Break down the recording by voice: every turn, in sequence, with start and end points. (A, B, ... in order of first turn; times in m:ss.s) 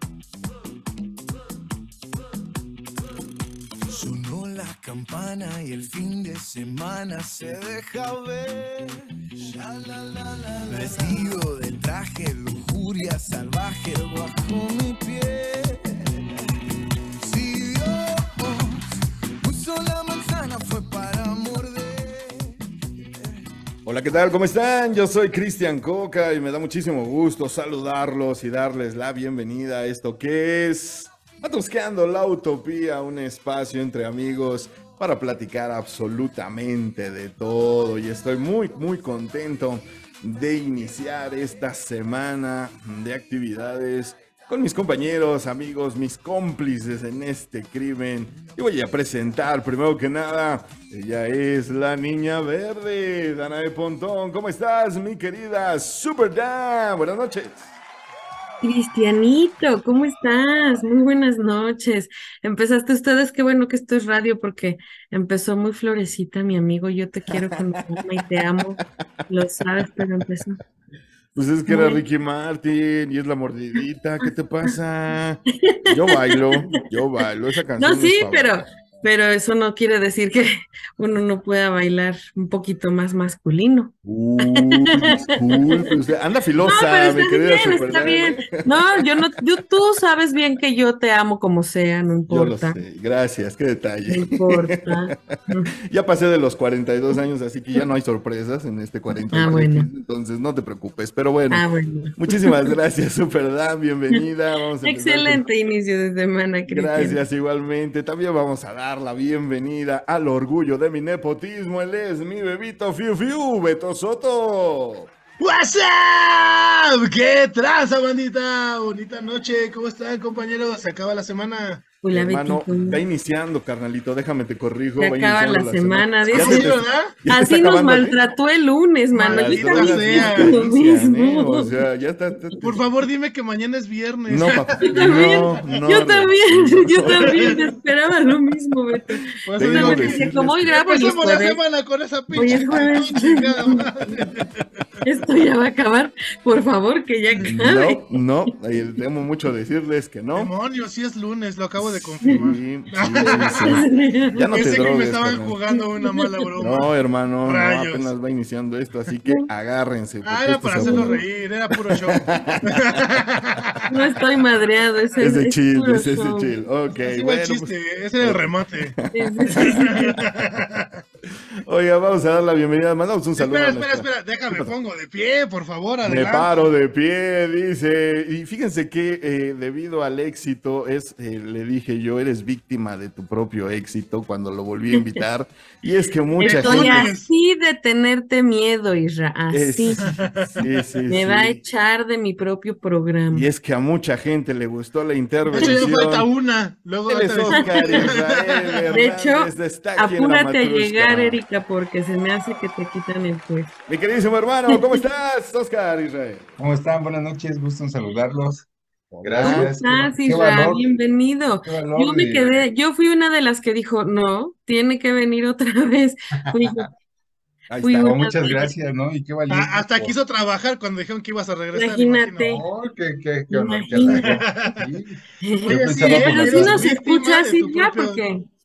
0:03.9-0:16.2 A
0:17.2-0:18.8 A
0:19.4-0:23.3 A
0:23.8-0:57.8 B
0:58.6-1:10.6 C
1:07.3-1:08.7 B
1:09.8-1:10.2 B
1:11.3-1:18.6 B
1:11.7-1:12.0 C
1:15.6-1:16.7 C
1:17.8-1:23.9 C
1:24.0-1:29.2 B
1:24.4-1:25.9 C
1:26.6-1:32.8 C
1:32.3-1:41.6 B
1:34.1-1:35.7 C
1:39.3-1:39.9 C
1:41.5-1:42.7 C
1:42.2-1:45.5 B
1:44.8-1:47.2 C
1:46.6-1:55.1 B
1:55.4-2:01.8 D
2:02.0-2:03.0 C
2:02.1-2:08.2 B
2:05.0-2:06.7 C
2:06.3-2:07.1 D
2:07.3-2:11.8 C
2:09.1-2:10.6 D
2:09.2-2:12.8 B
2:12.6-2:15.6 D
2:14.3-2:17.6 B
2:14.8-2:21.6 C
2:17.0-2:17.6 D
2:19.4-2:24.6 D
2:19.6-2:20.8 B
2:22.3-2:24.3 C
2:25.0-2:28.1 C
2:27.4-2:30.5 B
2:30.3-2:33.8 D
2:31.8-2:35.6 B
2:33.6-2:34.5 C
2:34.5-2:36.9 D
2:35.7-2:36.4 C
2:36.6-2:43.0 B
2:37.4-2:38.1 D
2:40.2-2:43.8 D
2:40.8-2:41.2 C
2:43.9-2:46.5 C
2:45.2-2:50.2 B
2:46.9-2:49.0 D
2:49.1-2:50.0 C
2:49.5-2:51.0 D
2:51.6-2:54.7 B
2:53.4-2:56.5 D
2:56.0-3:07.1 B
3:06.4-3:10.1 C
3:06.4-3:07.3 D
3:09.5-3:11.6 B
3:10.0-3:10.7 D
3:11.1-3:13.5 C
3:13.3-3:16.3 B
3:15.5-3:18.8 D
3:15.5-3:15.8 C
3:17.1-3:21.4 B
3:17.8-3:18.1 C
3:18.9-3:23.7 C
3:23.9-3:26.6 B
3:24.7-3:25.0 C
3:26.6-3:28.7 E
3:29.1-3:29.8 B
3:29.2-3:30.9 E
3:29.4-3:36.9 C
3:31.6-3:32.5 E
3:36.5-3:36.9 E
3:37.7-3:38.1 B
3:37.8-3:38.8 C
3:37.8-3:40.2 E
3:39.5-3:42.6 D
3:41.7-3:42.6 C
3:42.4-3:46.9 E
3:43.5-3:44.3 C
3:44.0-3:44.8 D
3:45.4-3:48.4 C
3:45.7-3:48.2 D